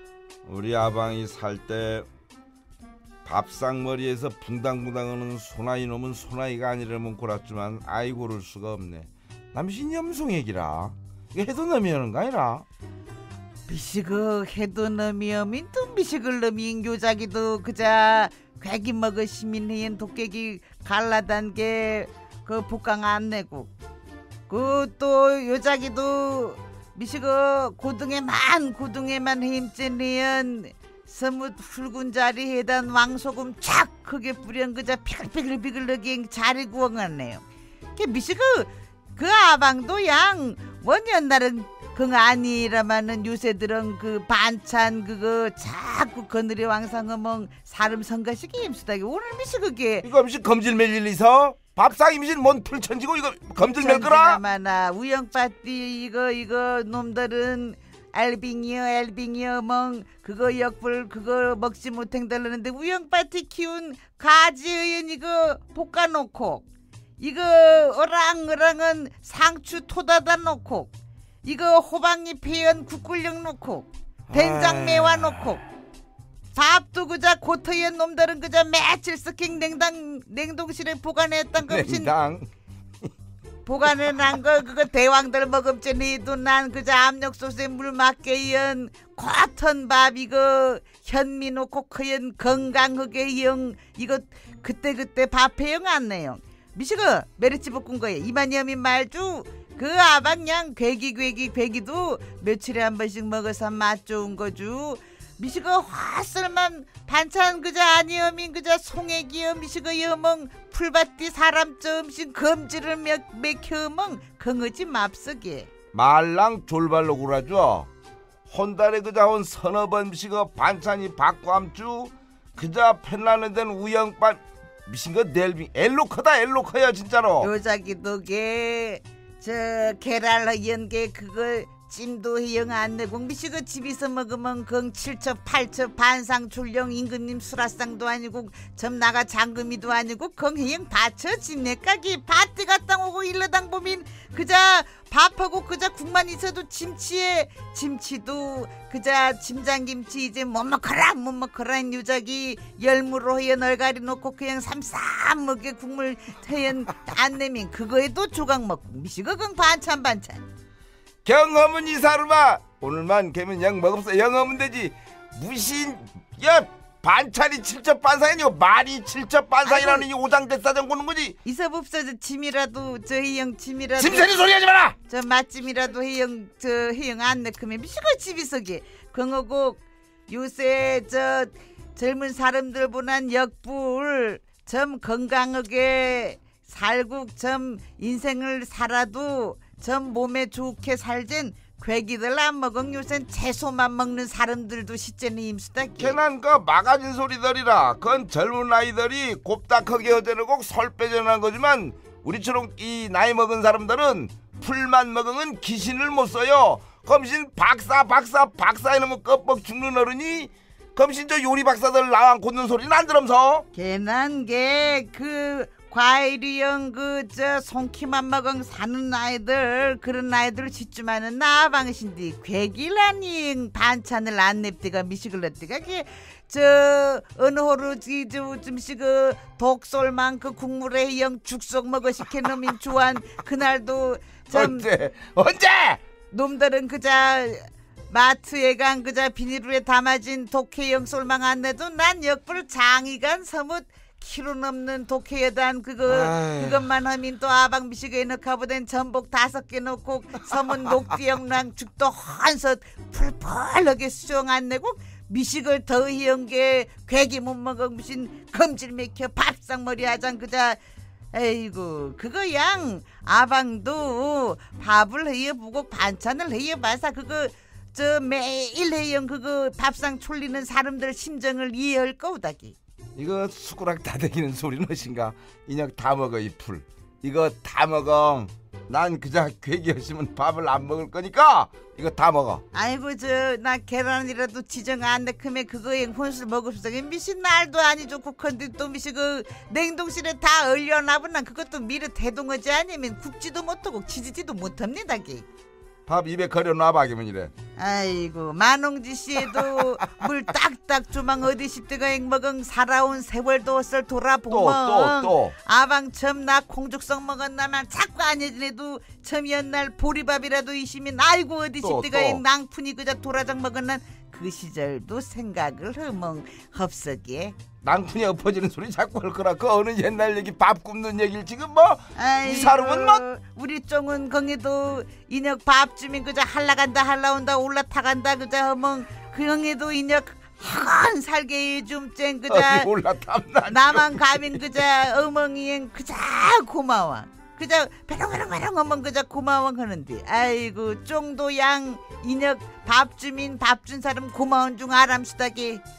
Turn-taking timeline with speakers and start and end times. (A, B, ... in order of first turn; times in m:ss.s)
0:00.4-0:02.1 A
0:03.2-0:12.6 A
0:13.7-0:23.7 B
0:24.5-0:37.4 B
0:38.0-0:50.1 B
0:50.0-0:54.4 A
0:53.8-1:06.7 B
1:07.2-1:10.9 B
1:11.4-1:15.6 B
1:14.3-1:15.6 A
1:16.5-1:22.1 B
1:21.6-1:22.5 A
1:23.6-1:55.7 B
1:55.9-1:57.9 A
1:58.5-2:07.5 A
2:07.4-2:40.4 B
2:41.2-2:51.4 A
2:49.6-2:50.1 B
2:51.4-2:54.4 B
2:54.0-2:55.0 A
2:55.1-3:16.2 B
3:16.0-3:33.6 A
3:33.8-3:54.9 B
3:54.5-3:56.0 A
3:56.3-4:20.8 B
4:06.1-4:06.9 A
4:21.3-4:32.8 B
4:33.2-4:42.6 A
4:42.7-4:55.5 B
4:56.1-4:57.5 A
4:57.8-5:17.6 B
4:59.5-5:00.3 A
5:04.5-5:05.5 A
5:11.8-5:12.4 A
5:17.8-5:23.2 A
5:22.2-5:32.9 B
5:32.5-5:34.7 A
5:33.7-5:45.8 B